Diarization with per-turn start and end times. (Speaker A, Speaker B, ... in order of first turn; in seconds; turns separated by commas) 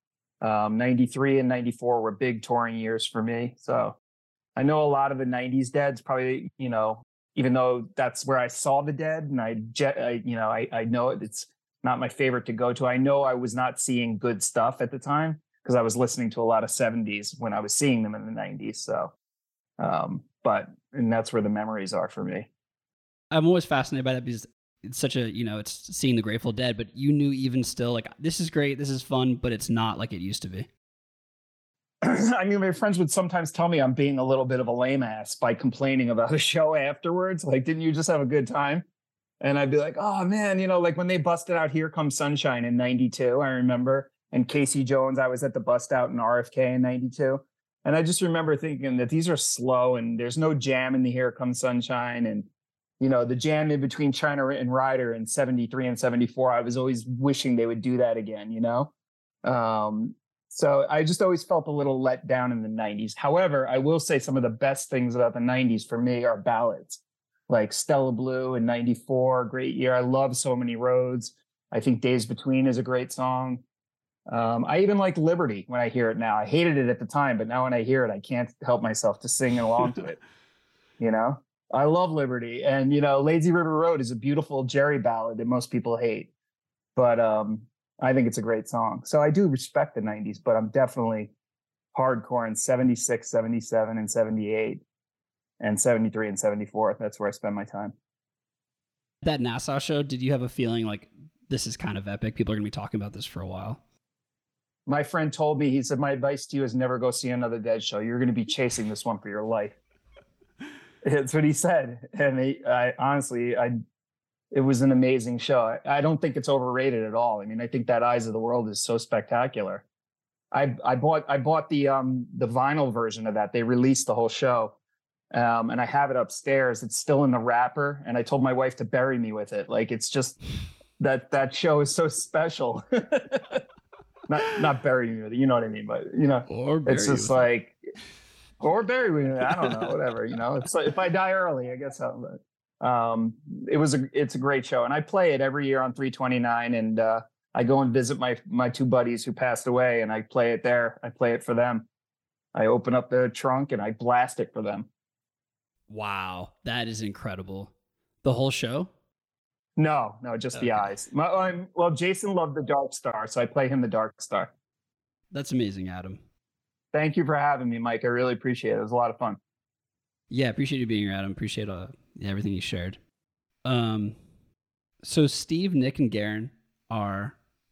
Speaker A: 0.4-4.0, Speaker A: 4.6-19.1, Speaker A: 19.8-22.5, Speaker B: 23.3-30.7, Speaker A: 32.0-38.9, Speaker A: 39.4-52.5, Speaker A: 53.0-58.9, Speaker A: 59.4-73.6, Speaker A: 74.3-80.2, Speaker A: 81.0-86.3, Speaker A: 87.0-91.3, Speaker A: 91.9-94.8, Speaker A: 95.6-97.9, Speaker B: 99.2-103.8, Speaker A: 104.9-109.8, Speaker A: 111.0-113.8, Speaker A: 114.5-119.8, Speaker A: 120.5-124.8, Speaker A: 125.3-130.4, Speaker A: 131.0-133.6, Speaker A: 134.3-137.8, Speaker B: 136.5-137.5, Speaker A: 138.6-151.9, Speaker B: 139.6-139.9, Speaker A: 152.5-154.9, Speaker B: 155.9-157.7, Speaker B: 158.2-158.9, Speaker A: 159.8-164.5, Speaker B: 160.6-160.9, Speaker B: 165.3-166.2, Speaker A: 166.9-169.4, Speaker B: 170.3-173.0, Speaker B: 173.7-174.2, Speaker B: 175.0-177.4